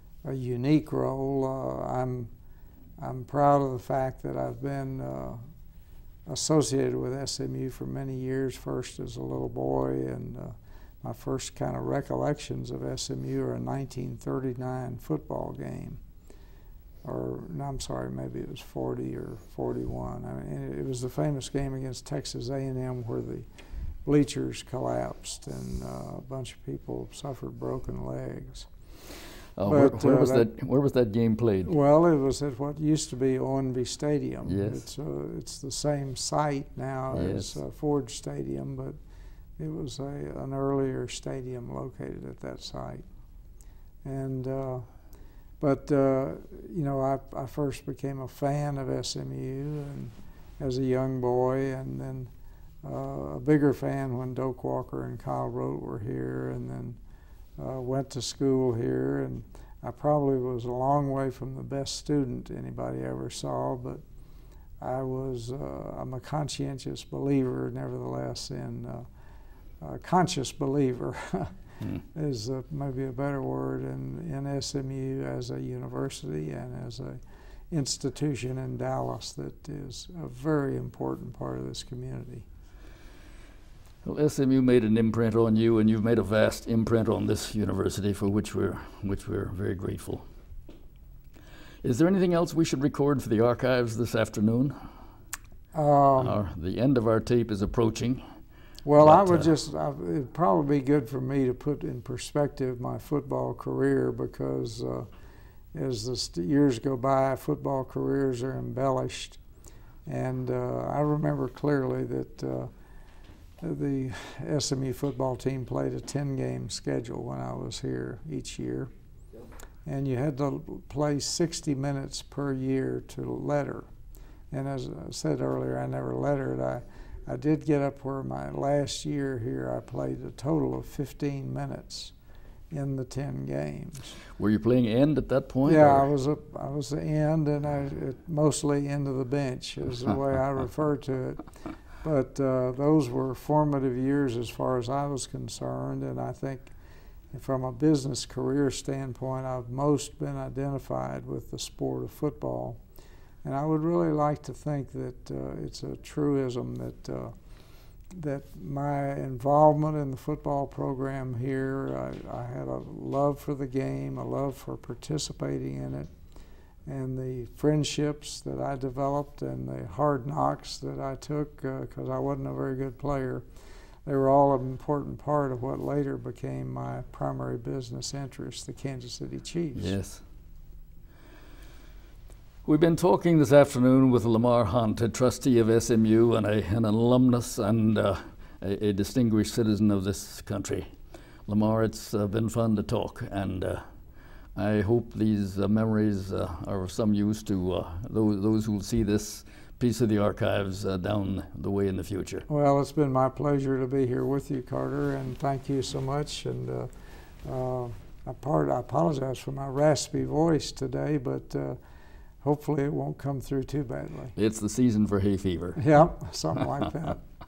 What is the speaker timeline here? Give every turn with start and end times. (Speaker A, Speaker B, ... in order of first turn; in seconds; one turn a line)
Speaker A: 0.2-2.3
Speaker A: 3.0-5.4
Speaker A: 6.3-16.0
Speaker A: 17.1-23.5
Speaker A: 24.1-28.7
Speaker B: 29.6-31.7
Speaker A: 29.6-30.5
Speaker A: 31.6-39.0
Speaker B: 34.5-34.8
Speaker B: 37.1-37.6
Speaker A: 39.6-43.0
Speaker A: 44.0-44.9
Speaker A: 45.6-52.3
Speaker A: 52.8-57.0
Speaker A: 57.6-64.0
Speaker A: 64.8-69.1
Speaker A: 69.8-77.2
Speaker A: 77.7-82.5
Speaker B: 84.0-90.3
Speaker B: 91.8-94.8
Speaker A: 95.7-96.4
Speaker B: 96.2-98.2
Speaker A: 98.8-105.1
Speaker B: 99.0-99.5
Speaker A: 105.7-109.4
Speaker A: 110.1-112.7
Speaker A: 113.6-118.9
Speaker A: 119.9-123.9
Speaker A: 124.5-132.1
Speaker A: 132.7-134.1
Speaker B: 134.4-136.1
Speaker A: 135.6-141.4
Speaker A: 142.0-146.7
Speaker A: 147.3-152.8
Speaker A: 153.4-157.3
Speaker A: 158.1-166.1
Speaker A: 166.9-173.4
Speaker A: 174.1-179.9
Speaker B: 179.8-180.2
Speaker B: 182.6-190.9
Speaker B: 191.5-193.8
Speaker B: 194.6-202.5
Speaker A: 202.5-206.9
Speaker A: 207.4-211.8
Speaker A: 212.4-214.3
Speaker B: 214.4-215.8
Speaker A: 215.8-217.2